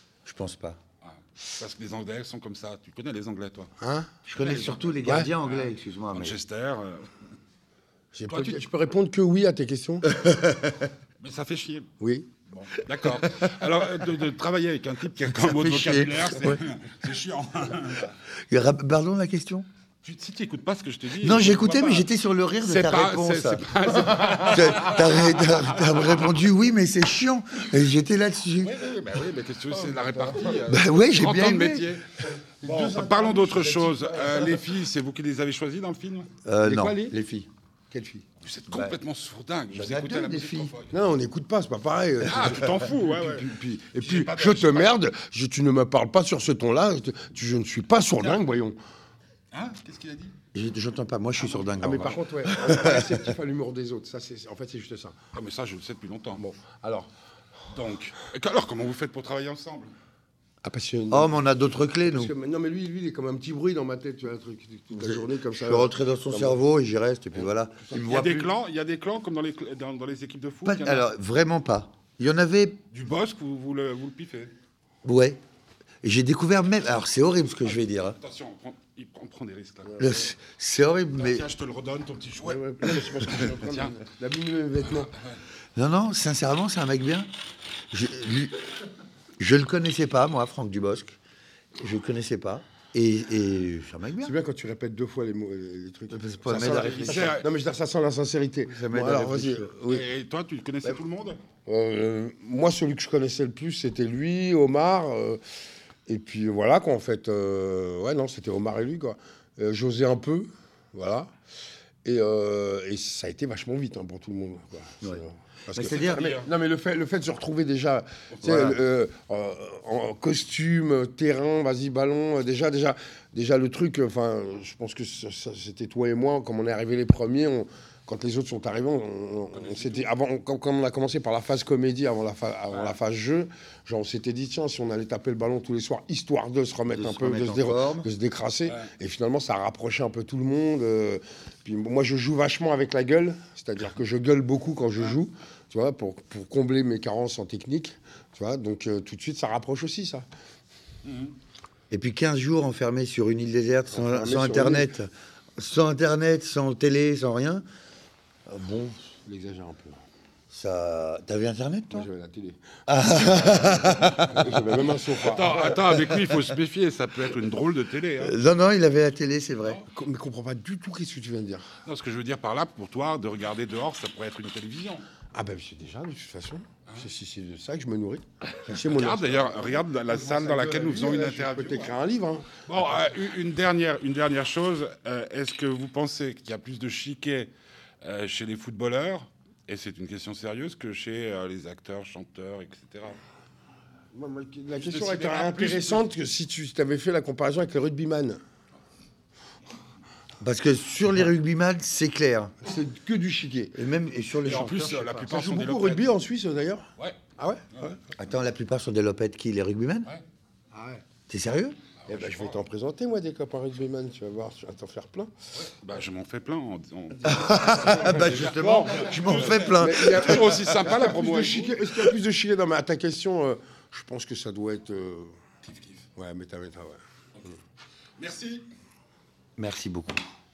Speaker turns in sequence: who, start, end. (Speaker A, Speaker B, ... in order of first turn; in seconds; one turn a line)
Speaker A: 0.2-0.8
Speaker B: 1.0-3.7
Speaker C: 3.8-4.1
Speaker A: 4.2-6.4
Speaker B: 4.3-7.0
Speaker C: 5.0-5.3
Speaker C: 8.1-10.1
Speaker B: 8.2-8.7
Speaker A: 10.1-10.7
Speaker B: 11.2-11.9
Speaker C: 12.0-12.3
Speaker B: 12.5-18.1
Speaker A: 15.3-16.6
Speaker A: 18.5-19.6
Speaker B: 20.0-22.1
Speaker A: 21.2-23.6
Speaker B: 22.6-26.3
Speaker C: 24.1-24.5
Speaker A: 24.5-28.8
Speaker B: 28.6-32.0
Speaker C: 29.7-30.7
Speaker A: 30.7-31.9
Speaker C: 32.6-34.7
Speaker B: 32.6-36.3
Speaker A: 36.4-37.5
Speaker C: 36.6-37.2
Speaker C: 37.9-38.2
Speaker B: 38.4-40.9
Speaker A: 38.7-39.0
Speaker A: 39.7-40.7
Speaker C: 40.9-48.8
Speaker B: 42.2-45.0
Speaker B: 49.5-50.3
Speaker A: 50.5-53.2
Speaker C: 51.5-55.1
Speaker B: 55.3-56.4
Speaker C: 56.4-57.1
Speaker B: 57.7-59.9
Speaker C: 60.6-61.4
Speaker A: 61.1-62.3
Speaker C: 62.0-66.6
Speaker A: 64.9-68.5
Speaker C: 67.3-68.0
Speaker B: 67.9-71.1
Speaker A: 70.6-72.8
Speaker B: 72.9-74.5
Speaker A: 75.0-75.4
Speaker A: 76.0-78.2
Speaker B: 77.6-80.0
Speaker C: 79.9-80.3
Speaker A: 80.0-81.5
Speaker B: 81.1-84.0
Speaker C: 82.4-85.1
Speaker A: 85.8-87.3
Speaker A: 87.9-88.7
Speaker A: 89.4-91.2
Speaker A: 91.8-94.3
Speaker C: 94.2-100.0
Speaker A: 96.1-97.3
Speaker B: 96.6-97.5
Speaker A: 98.7-99.7
Speaker B: 99.9-101.4
Speaker C: 101.7-105.4
Speaker C: 106.1-111.3
Speaker C: 112.0-150.2
Speaker A: 115.0-116.2
Speaker B: 115.8-116.5
Speaker B: 118.3-118.8
Speaker B: 129.5-130.1
Speaker B: 132.7-132.9
Speaker A: 136.9-138.1
Speaker B: 151.0-151.3
Speaker A: 151.9-157.6
Speaker C: 153.9-155.0
Speaker A: 158.5-159.0
Speaker C: 159.2-160.0
Speaker A: 160.5-162.1
Speaker C: 161.9-162.7
Speaker A: 162.9-164.5
Speaker C: 164.3-165.7
Speaker B: 165.2-168.3
Speaker A: 168.2-169.8
Speaker C: 169.9-171.7
Speaker B: 171.8-175.0
Speaker C: 175.3-182.5
Speaker B: 178.7-181.9
Speaker B: 182.7-187.5
Speaker B: 188.0-193.2
Speaker C: 194.1-198.4
Speaker B: 194.8-196.1
Speaker A: 200.4-202.5
Speaker C: 202.6-203.8
Speaker A: 203.7-205.0
Speaker B: 204.4-206.1
Speaker C: 204.9-206.8
Speaker C: 207.4-208.0
Speaker A: 208.2-210.1
Speaker C: 210.7-211.0
Speaker A: 211.3-211.8
Speaker B: 212.0-212.6
Speaker C: 212.1-215.3
Speaker B: 215.6-221.9
Speaker A: 217.2-220.9
Speaker C: 217.9-218.2
Speaker C: 219.6-225.3
Speaker B: 225.6-226.0
Speaker C: 226.1-227.0
Speaker B: 228.2-228.6
Speaker A: 229.6-230.2